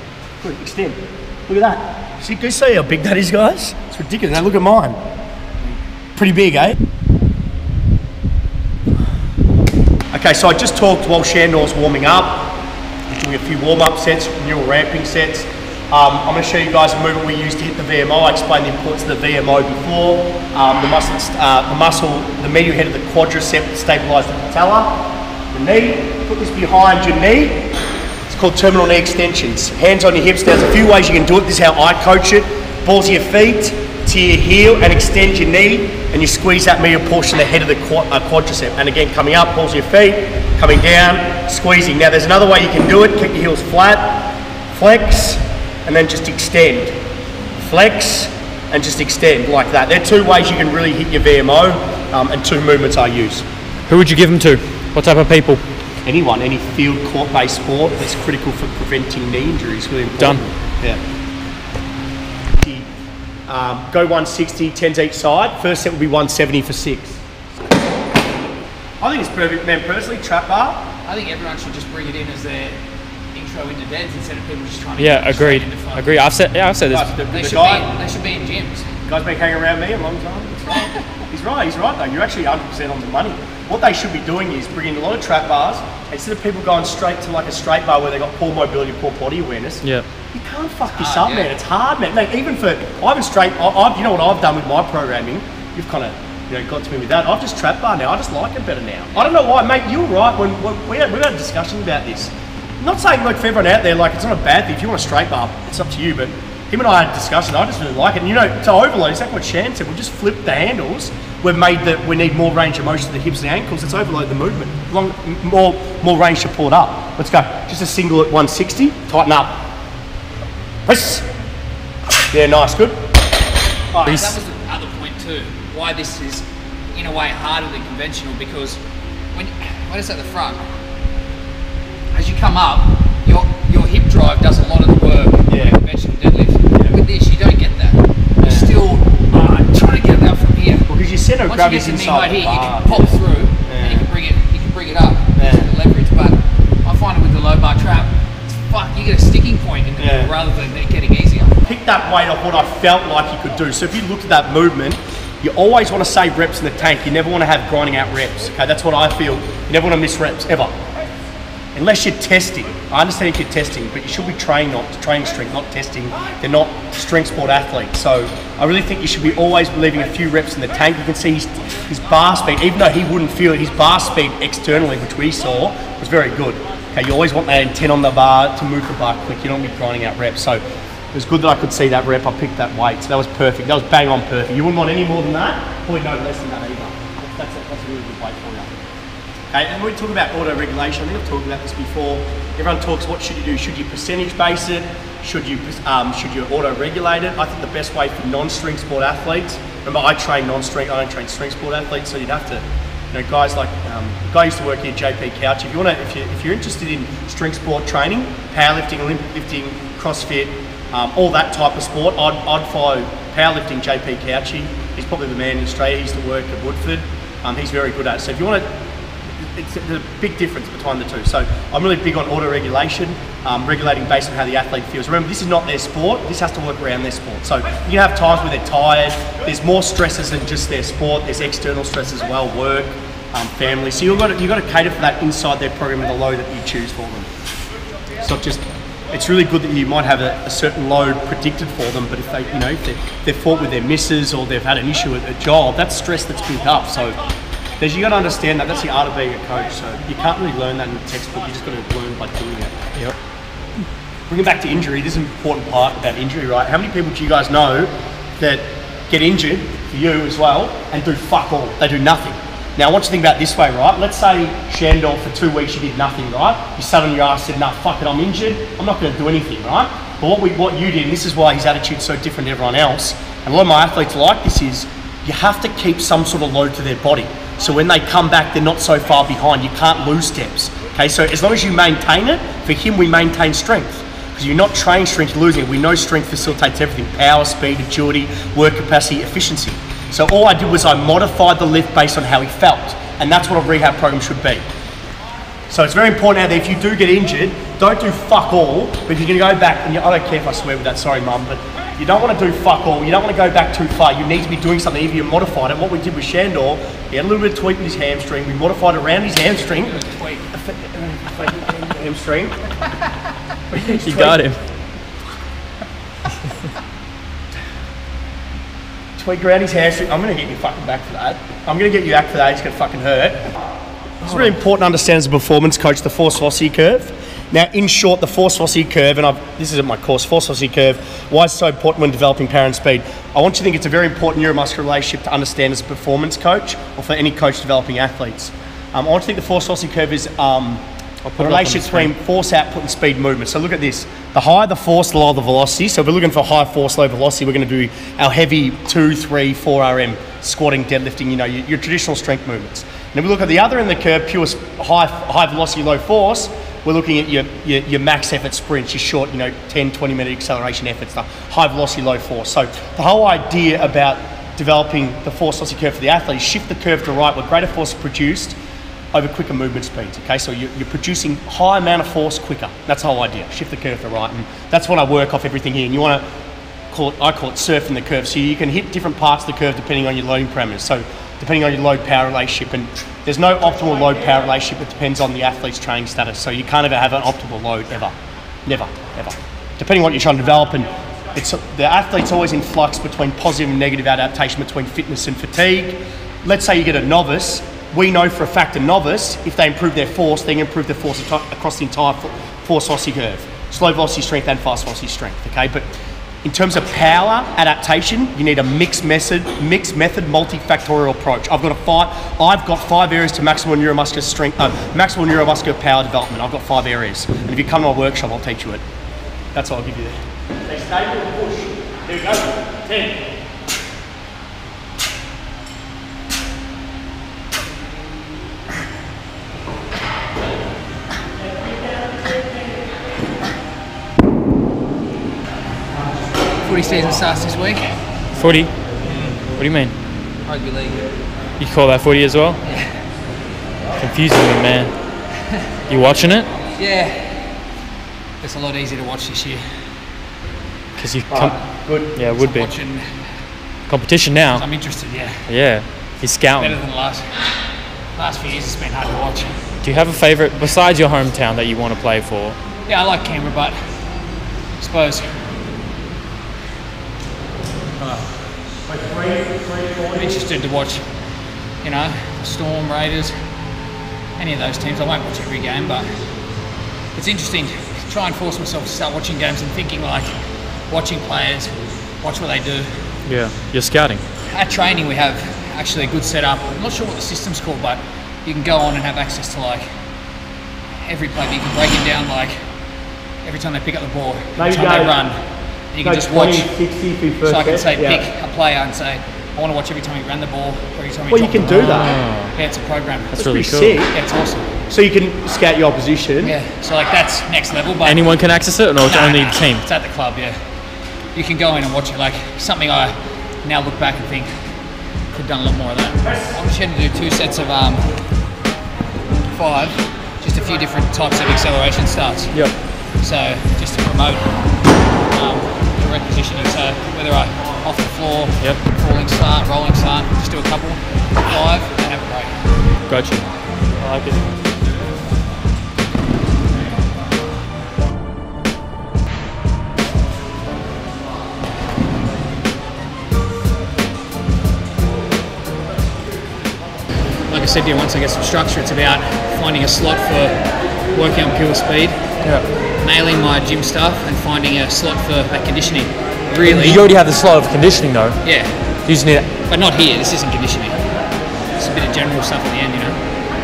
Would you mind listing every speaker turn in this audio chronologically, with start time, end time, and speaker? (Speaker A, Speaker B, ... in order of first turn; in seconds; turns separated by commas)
Speaker A: 0.4-5.0, Speaker A: 6.2-6.8, Speaker A: 10.1-27.7, Speaker A: 28.3-47.0, Speaker A: 47.6-53.4, Speaker B: 53.9-55.6, Speaker A: 56.0-61.0, Speaker B: 60.2-60.4, Speaker A: 62.6-62.9, Speaker A: 63.5-67.2, Speaker A: 69.0-70.9, Speaker C: 71.0-72.8, Speaker C: 73.3-76.1, Speaker B: 75.0-77.1, Speaker A: 76.9-77.9, Speaker C: 77.3-78.9, Speaker A: 79.0-119.6, Speaker C: 80.7-81.0, Speaker C: 90.9-91.5, Speaker A: 120.8-121.2, Speaker A: 122.3-123.0, Speaker A: 123.9-124.2, Speaker B: 124.0-124.4, Speaker C: 124.0-128.8, Speaker C: 129.3-130.6, Speaker C: 132.1-140.9, Speaker A: 135.5-135.8, Speaker A: 138.4-138.8, Speaker A: 140.9-143.1, Speaker C: 141.5-148.1, Speaker A: 143.7-144.1, Speaker A: 145.4-145.7, Speaker C: 148.7-151.6, Speaker A: 150.0-150.3, Speaker A: 151.7-160.7, Speaker A: 161.7-180.6, Speaker A: 181.1-188.7, Speaker A: 189.5-218.7, Speaker A: 219.3-237.3, Speaker A: 238.2-247.2, Speaker A: 247.8-252.8, Speaker A: 254.3-294.6, Speaker A: 295.7-309.9, Speaker C: 309.5-310.5, Speaker A: 310.5-312.5, Speaker A: 313.7-314.4, Speaker B: 313.9-314.6, Speaker A: 319.2-323.4, Speaker A: 324.2-340.8, Speaker B: 324.2-324.5, Speaker B: 341.2-342.1, Speaker A: 341.4-368.6, Speaker A: 369.1-376.2, Speaker A: 376.9-388.1, Speaker A: 388.6-405.9, Speaker A: 406.4-418.8, Speaker A: 419.5-423.3, Speaker C: 436.6-437.9, Speaker B: 438.3-438.7, Speaker B: 439.6-439.9, Speaker C: 440.4-441.1, Speaker B: 441.6-442.6, Speaker C: 442.6-443.0, Speaker B: 444.0-444.9, Speaker B: 445.9-446.5, Speaker C: 446.6-447.5, Speaker C: 448.4-449.6, Speaker B: 451.0-451.6, Speaker A: 451.3-452.2, Speaker B: 452.1-452.7, Speaker C: 452.3-453.1, Speaker B: 453.9-454.6, Speaker C: 454.5-455.5, Speaker B: 455.5-456.7, Speaker C: 456.6-457.5, Speaker C: 458.1-459.6, Speaker B: 459.8-462.6, Speaker C: 462.9-463.8, Speaker C: 464.8-465.2, Speaker C: 468.0-468.3, Speaker A: 468.9-470.4, Speaker C: 470.1-471.0, Speaker C: 471.8-473.3, Speaker C: 474.4-476.1, Speaker C: 477.1-480.3, Speaker C: 480.9-483.0, Speaker B: 483.2-484.2, Speaker C: 484.5-489.8, Speaker C: 491.0-492.5, Speaker C: 493.4-495.4, Speaker A: 494.6-495.1, Speaker C: 495.9-496.7, Speaker A: 496.0-498.2, Speaker C: 497.4-503.4, Speaker A: 501.3-502.1, Speaker B: 501.6-502.5, Speaker B: 503.3-504.0, Speaker A: 503.4-504.1, Speaker C: 504.1-504.7, Speaker A: 504.9-506.5, Speaker C: 506.4-508.3, Speaker B: 508.0-509.8, Speaker C: 509.0-510.6, Speaker C: 511.3-514.7, Speaker C: 515.3-518.0, Speaker C: 519.5-524.5, Speaker C: 525.3-532.6, Speaker B: 533.1-533.4, Speaker B: 534.0-534.5, Speaker C: 547.5-552.2, Speaker C: 553.0-557.0, Speaker B: 556.6-558.4, Speaker C: 558.4-558.8, Speaker B: 559.0-559.5, Speaker C: 559.6-561.0, Speaker C: 561.8-563.2